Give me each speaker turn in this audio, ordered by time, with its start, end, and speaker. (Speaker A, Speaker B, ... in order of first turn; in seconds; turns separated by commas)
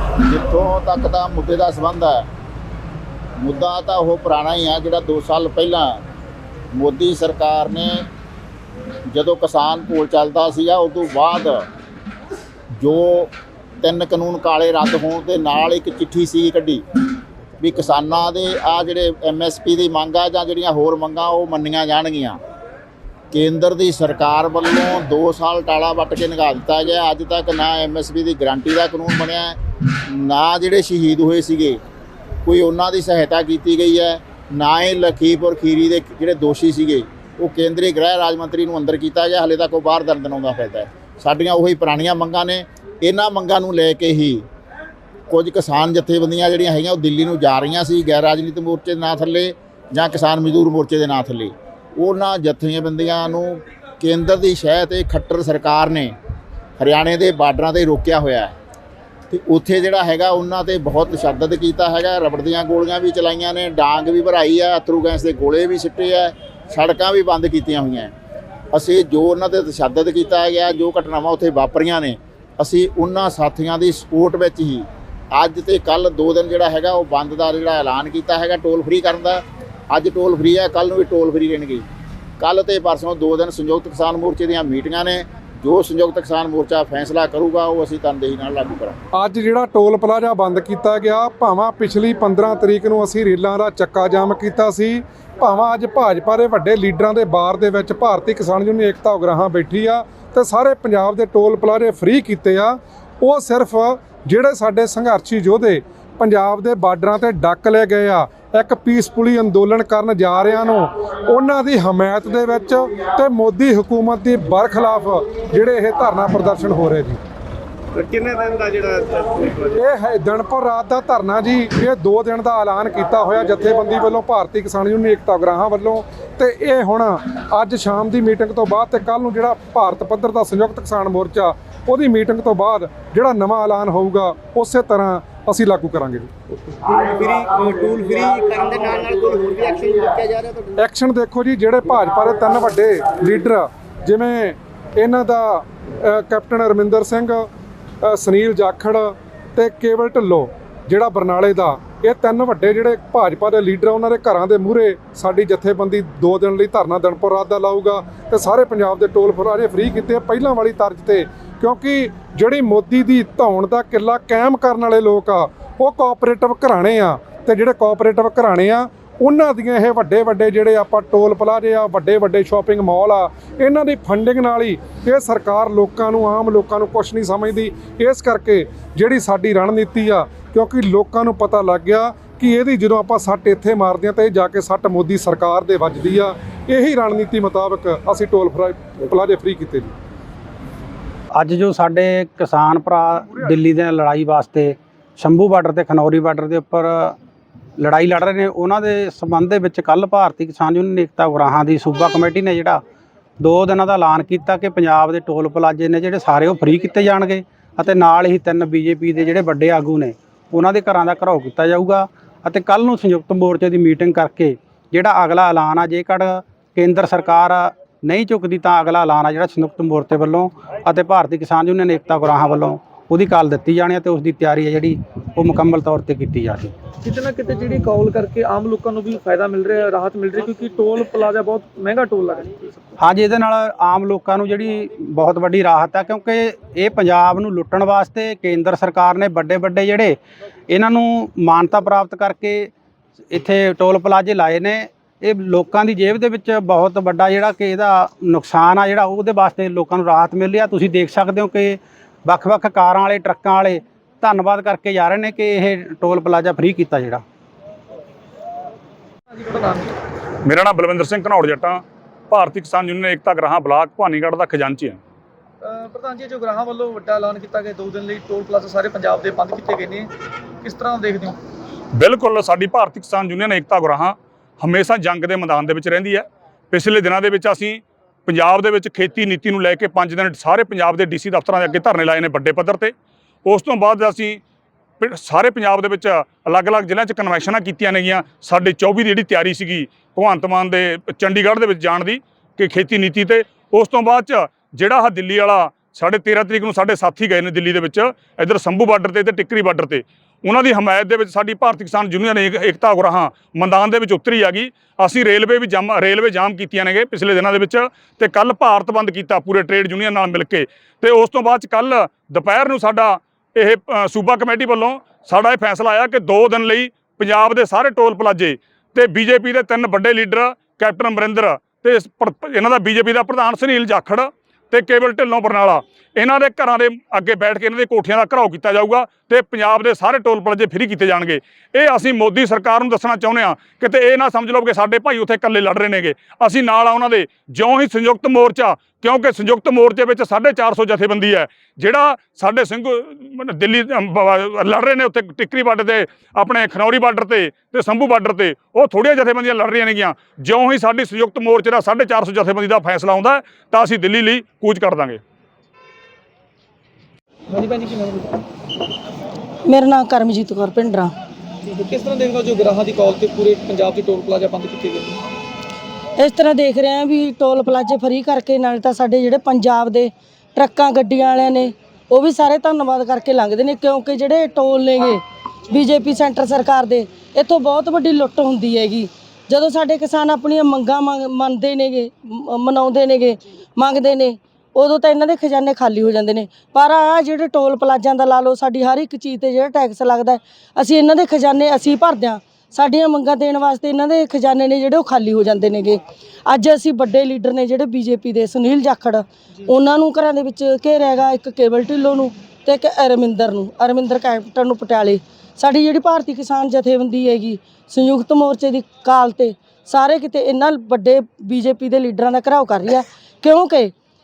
Speaker A: 0.3-2.2, Speaker A: 3.4-5.9, Speaker A: 6.7-8.0, Speaker A: 9.1-11.6, Speaker A: 12.8-13.3, Speaker A: 13.8-16.8, Speaker B: 15.6-16.0, Speaker A: 17.6-22.4, Speaker A: 23.4-29.5, Speaker B: 23.6-24.2, Speaker B: 25.5-25.7, Speaker B: 27.8-28.2, Speaker B: 28.9-29.2, Speaker A: 30.3-31.7, Speaker B: 30.8-31.6, Speaker A: 32.5-44.4, Speaker B: 33.9-36.8, Speaker B: 37.6-39.1, Speaker B: 39.8-41.0, Speaker A: 45.3-53.5, Speaker B: 45.9-46.4, Speaker A: 54.0-56.1, Speaker B: 54.6-55.2, Speaker A: 56.8-58.5, Speaker A: 59.4-68.1, Speaker B: 59.6-59.8, Speaker B: 63.8-64.1, Speaker B: 65.2-65.5, Speaker A: 68.7-74.8, Speaker B: 68.8-71.2, Speaker B: 72.8-74.4, Speaker A: 75.4-79.4, Speaker A: 79.9-81.8, Speaker A: 82.4-89.0, Speaker C: 89.1-117.2, Speaker D: 118.0-119.7, Speaker C: 119.8-136.3, Speaker D: 136.9-140.7, Speaker C: 140.8-147.5, Speaker C: 148.1-189.9, Speaker E: 191.3-197.2, Speaker E: 197.8-202.8, Speaker E: 203.4-226.7, Speaker F: 227.0-232.9, Speaker E: 233.0-242.7, Speaker E: 243.3-257.2, Speaker F: 259.3-260.0, Speaker G: 260.5-265.0, Speaker F: 265.6-270.1, Speaker F: 270.6-271.4, Speaker G: 271.9-282.9, Speaker G: 283.4-284.4, Speaker G: 285.0-355.2, Speaker F: 357.5-358.4, Speaker B: 359.7-361.1, Speaker F: 361.7-365.2, Speaker B: 366.2-375.2, Speaker B: 375.7-413.9